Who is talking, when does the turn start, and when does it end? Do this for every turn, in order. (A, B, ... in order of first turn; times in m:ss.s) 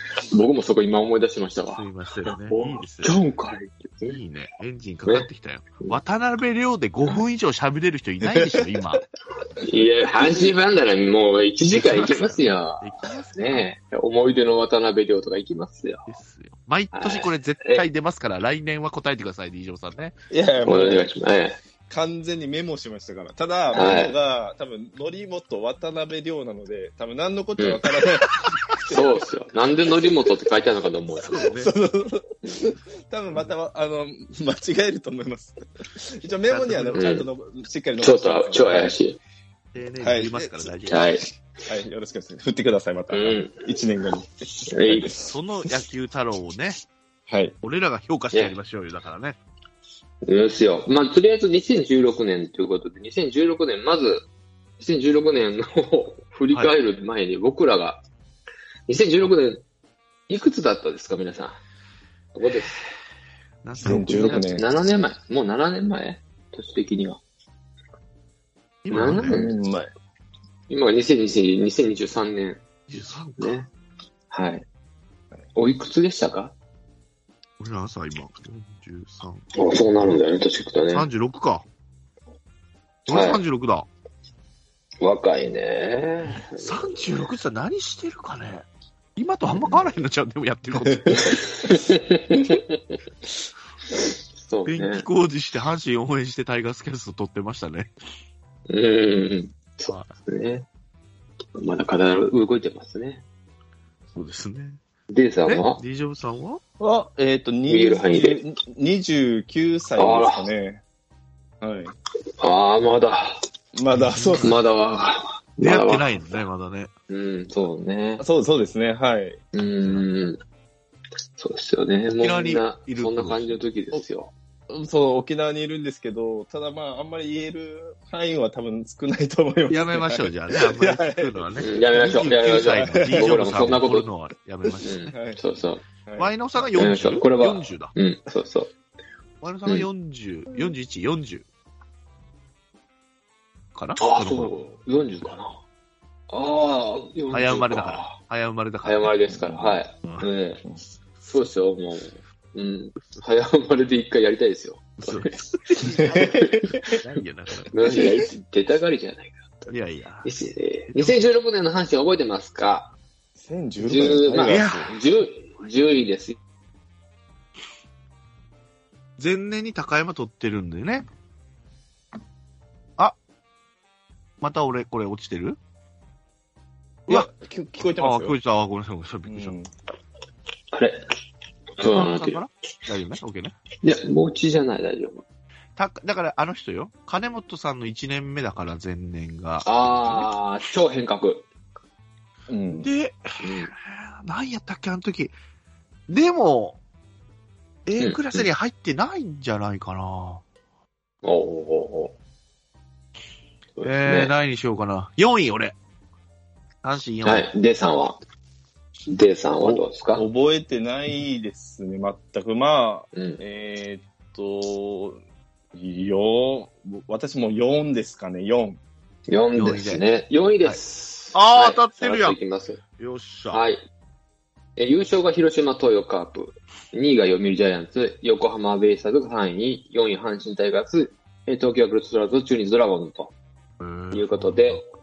0:00.3-0:04.2 A
0:01.7-0:03.2 B
0:04.1-0:09.0 B
0:08.2-0:08.7 C
0:09.6-0:16.1 A
0:11.7-0:13.7 B
0:16.1-0:20.1 B
0:16.9-0:17.8 A
0:20.3-0:21.1 C
0:20.6-0:21.6 A
0:21.9-0:29.2 C
0:23.7-0:24.2 A
0:28.9-0:31.4 A
0:31.2-0:31.7 B
0:31.4-0:38.9 C
0:36.5-0:37.1 B
0:36.9-0:37.3 A
0:38.0-0:39.2 A
0:39.7-0:41.1 B
0:40.0-0:40.7 C
0:40.8-0:41.2 A
0:41.7-0:45.2 C
0:43.1-0:43.7 A
0:44.6-0:45.1 A
0:45.2-0:46.8 B
0:47.3-0:47.5 C
0:47.6-0:49.4 B
0:50.2-0:54.2 A
0:54.8-0:58.0 A
0:58.9-0:59.6 A
1:00.3-1:01.6 A
1:02.3-1:02.8 A
1:03.6-1:04.4 B
1:03.8-1:04.6 C
1:03.8-1:07.2 A
1:08.8-1:09.4 B
1:08.9-1:09.6 A
1:08.9-1:09.9 C
1:10.7-1:12.6 A
1:12.9-1:13.6 B
1:13.4-1:13.7 A
1:14.3-1:14.6 A
1:15.5-1:16.5 A
1:17.6-1:19.4 B
1:19.5-1:21.1 A
1:20.9-1:21.6 B
1:23.1-1:23.8 B
1:23.1-1:23.4 A
1:25.0-1:27.1 A
1:26.5-1:31.5 B
1:29.5-1:29.8 A
1:31.2-1:33.0 A
1:34.4-1:35.0 A
1:34.7-1:37.9 B
1:38.7-1:40.6 A
1:41.6-1:43.2 A
1:44.1-1:44.8 B
1:45.1-1:45.8 A
1:45.4-1:46.6 B
1:46.8-1:50.8 C
1:47.7-1:48.4 A
1:50.0-1:50.4 A
1:51.6-1:51.9 C
1:52.4-1:53.4 A
1:53.7-1:54.6 C
1:53.9-1:54.5 B
1:54.4-1:56.4 A
1:55.6-1:56.9 B
1:57.1-1:58.2 A
1:58.2-1:59.4 C
1:59.5-2:00.4 A
2:01.4-2:04.3 A
2:02.2-2:03.6 B
2:04.7-2:11.6 C
2:09.7-2:15.1 B
2:11.6-2:14.1 A
2:12.9-2:13.3 C
2:14.8-2:15.8 A
2:15.1-2:15.4 C
2:16.0-2:16.7 C
2:16.2-2:17.9 B
2:16.8-2:18.7 A
2:19.4-2:21.4 B
2:23.7-2:24.5 B
2:24.0-2:25.6 A
2:26.3-2:28.2 A
2:27.3-2:29.1 B
2:28.8-2:30.6 A
2:29.4-2:29.8 C
2:31.2-2:35.4 A
2:35.0-2:38.0 B
2:36.1-2:37.0 A
2:36.1-2:36.7 C
2:37.7-2:39.7 A
2:39.7-2:40.3 B
2:40.2-2:42.9 A
2:40.9-2:41.2 B
2:43.4-2:44.9 C
2:43.8-2:46.4 A
2:44.4-2:45.0 B
2:49.2-2:51.0 B
2:54.4-2:55.6 B
2:57.1-2:58.4 C
2:57.8-2:59.6 B
2:59.3-2:59.7 C
3:00.7-3:01.0 A
3:01.8-3:02.4 A
3:01.8-3:03.5 B
3:03.8-3:05.2 A
3:05.8-3:10.3 B
3:09.6-3:11.4 A
3:12.5-3:12.9 C
3:12.7-3:15.3 B
3:13.4-3:13.7 A
3:16.1-3:16.8 B
3:17.8-3:20.4 B
3:18.0-3:18.5 A
3:21.2-3:22.1 A
3:23.8-3:24.3 A
3:23.8-3:25.7 B
3:26.8-3:27.5 B
3:27.2-3:28.2 A
3:29.1-3:30.2 A
3:30.1-3:35.2 C
3:33.1-3:33.4 A
3:35.7-3:38.8 C
3:39.3-3:42.8 A
3:39.6-3:40.0 B
3:41.3-3:42.4 B
3:43.0-3:43.6 B
3:43.5-3:43.8 A
3:44.8-3:53.3 A
3:53.8-3:54.8 B
3:54.1-3:54.8 A